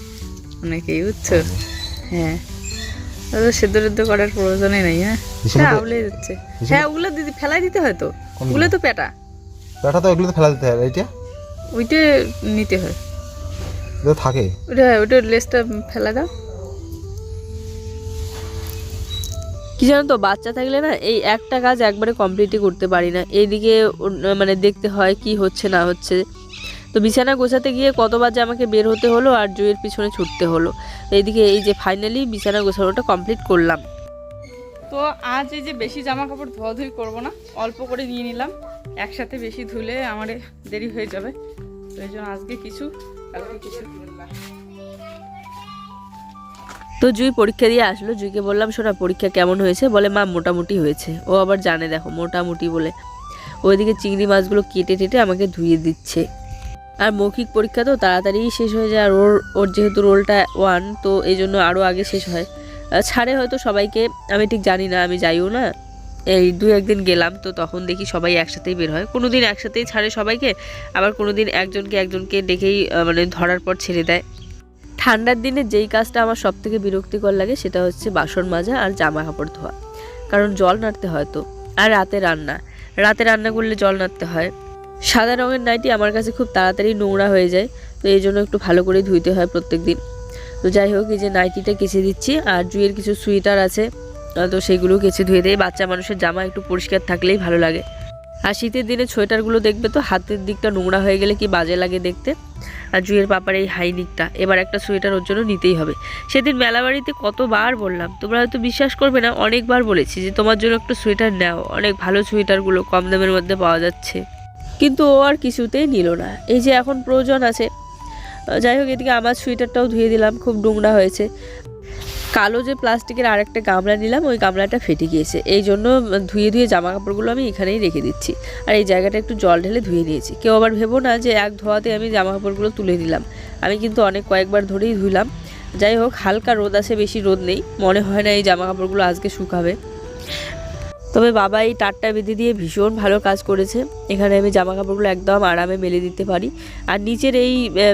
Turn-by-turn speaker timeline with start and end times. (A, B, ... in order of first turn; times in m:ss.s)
0:00.6-0:01.5 A
0:01.3-0:01.6 B
0:02.1-0:02.4 A
0:03.3-0:09.1 A
0:05.4-0:05.9 B
0:06.6-0:06.8 B
0:08.4-0:08.7 B
0:09.8-0:11.1 B
0:11.7-0:13.0 A
0:14.0-0:14.5 B
0:14.7-0:16.3 A
0:19.8-0:26.2 C
0:26.9-0:33.8 C
0:34.9-0:41.3 A
0:42.0-0:44.1 A
0:47.0-0:52.9 C
0:53.6-0:56.2 C
0:57.0-1:02.5 C
1:03.0-1:05.7 C
1:06.3-1:14.2 C
1:15.0-1:19.7 C
1:20.3-1:24.5 C
1:25.1-1:30.0 C
1:30.6-1:33.8 C
1:34.4-1:37.8 C
1:38.5-1:42.3 C
1:43.0-1:54.2 C
1:54.8-1:57.7 C
1:58.6-2:01.3 C
2:02.4-2:15.3 C
2:15.8-2:19.8 C
2:21.1-2:27.6 C